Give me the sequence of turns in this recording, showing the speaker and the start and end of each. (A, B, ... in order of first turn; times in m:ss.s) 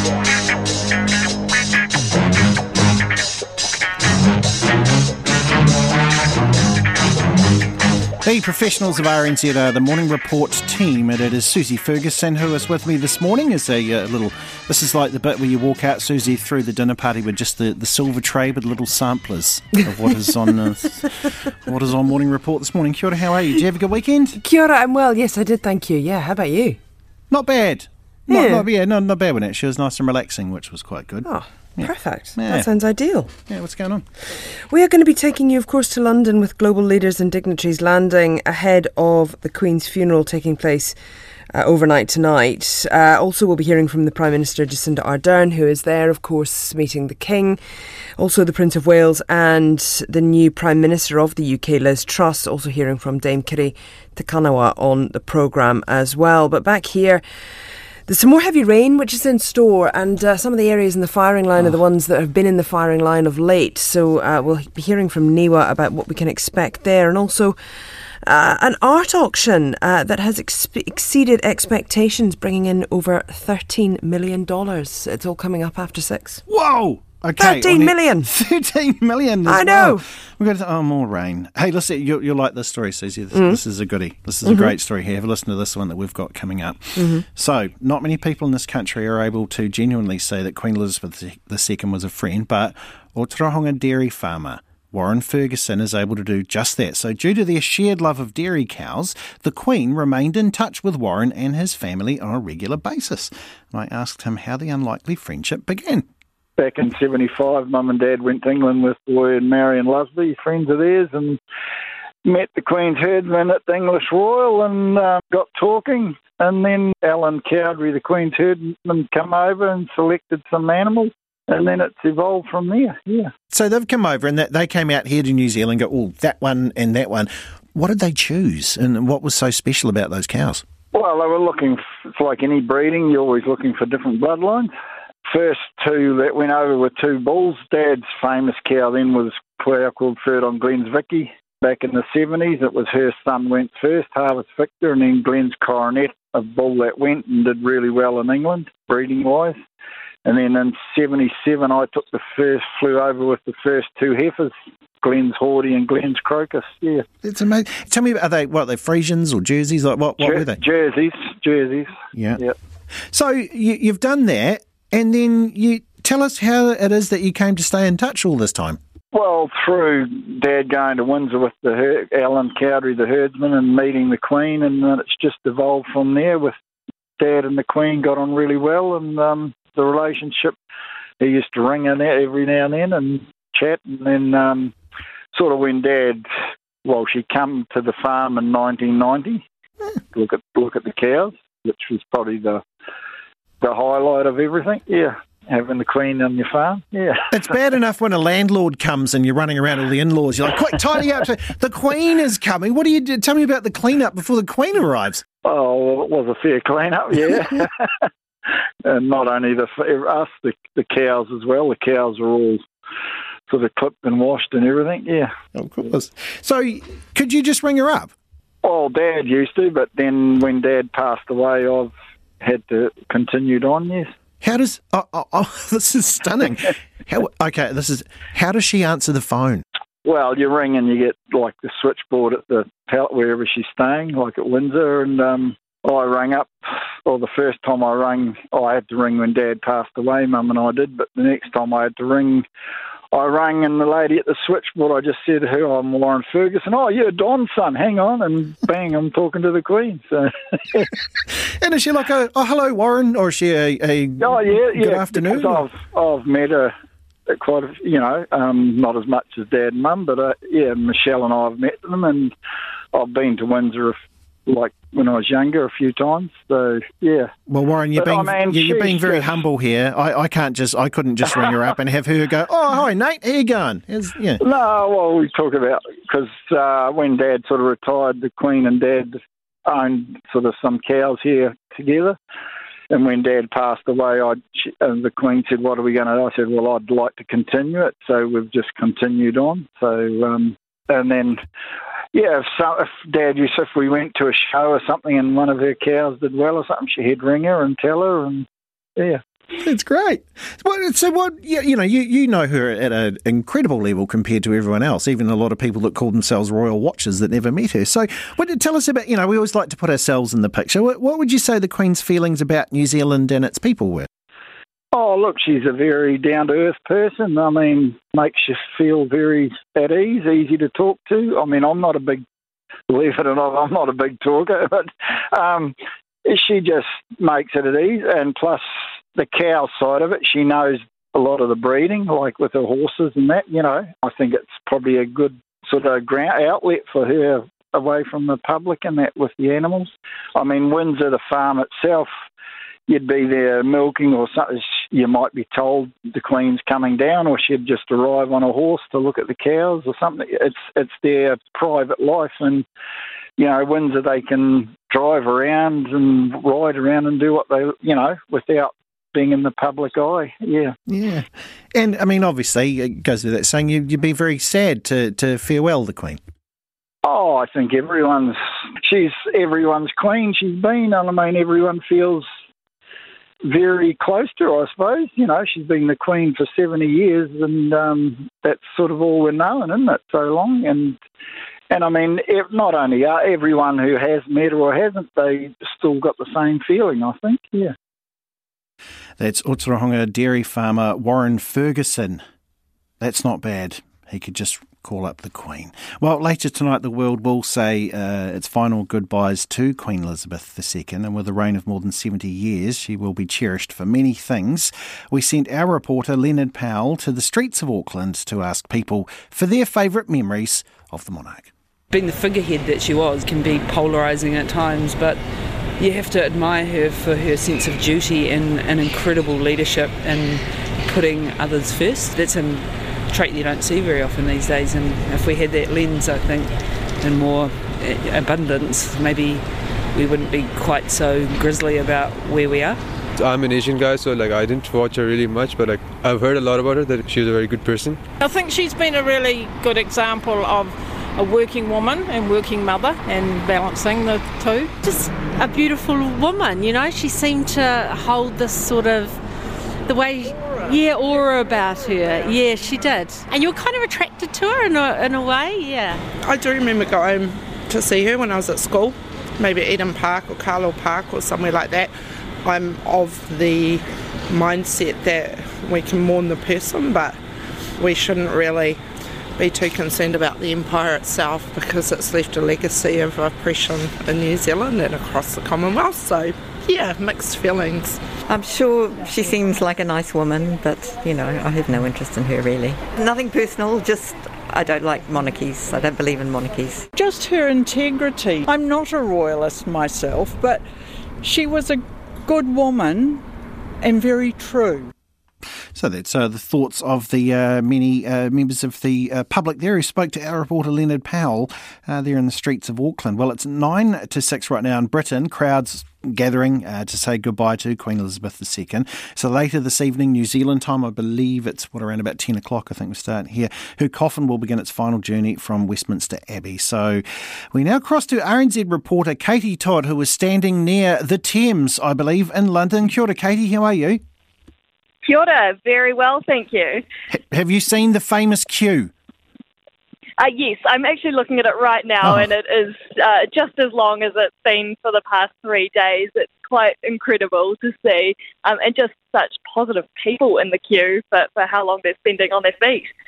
0:08.2-0:24.4 A
0:24.4-0:26.8 B
0:27.3-0:32.7 A
0:28.3-0:28.7 B
0:31.2-0:33.3 B
0:33.5-0:34.0 A
0:34.7-0:41.0 B
0:41.5-0:57.2 B
0:58.0-1:07.6 B
1:08.2-1:16.4 B
1:16.5-1:46.0 A
1:17.4-1:18.3 B
1:19.4-1:20.0 B
1:23.3-1:23.6 B
1:24.4-1:24.8 B
1:27.0-1:27.2 B
1:46.6-1:51.4 C
1:52.2-2:03.3 C
2:03.5-2:10.6 A
2:10.9-2:14.7 C
2:15.3-2:29.6 C
2:30.2-2:37.0 C
2:37.2-2:40.6 A
2:40.2-2:42.5 C
2:42.1-2:42.4 A
2:43.0-2:48.8 A
2:49.1-2:56.5 C
2:57.2-3:00.6 C
3:01.2-3:04.7 C
3:05.3-3:06.2 C
3:06.8-3:09.4 C
3:10.1-3:12.6 C
3:13.6-3:17.2 C
3:17.3-3:25.2 A
3:25.4-3:27.7 C
3:28.8-3:32.6 C
3:33.5-3:35.3 C
3:35.5-3:38.1 A
3:38.6-3:44.1 C
3:44.4-3:49.6 A
3:50.0-4:02.4 C
4:03.1-4:10.9 C
4:11.3-4:15.6 A
4:14.2-4:16.7 C
4:17.3-4:22.3 C
4:22.9-4:27.3 C
4:27.5-4:34.4 A
4:28.0-4:29.4 C
4:34.4-4:42.2 C
4:42.9-4:51.4 C
4:52.1-4:59.2 C
4:59.6-5:14.1 A
5:14.9-5:22.2 C
5:22.9-5:28.6 C
5:29.1-5:42.1 C
5:42.9-5:52.6 C
5:53.4-6:00.7 C
6:00.9-6:06.2 A
6:07.0-6:12.2 C
6:13.4-6:21.0 C
6:21.7-6:27.7 C
6:29.2-6:32.2 A
6:33.0-6:51.5 A
6:51.9-6:55.2 D
6:55.8-7:12.8 D
7:13.2-7:18.0 E
7:18.2-7:24.8 F
7:24.8-7:29.2 G
7:29.9-7:36.0 G
7:36.2-7:41.9 H
7:42.4-7:47.2 H
7:47.8-7:48.8 H
7:49.4-7:58.0 H
7:58.3-8:06.9 I
8:06.9-8:10.6 J
8:11.2-8:13.2 J
8:13.8-8:14.9 J
8:15.7-8:44.0 A
8:45.0-8:46.8 K
8:47.1-8:48.9 A
8:50.2-9:02.9 K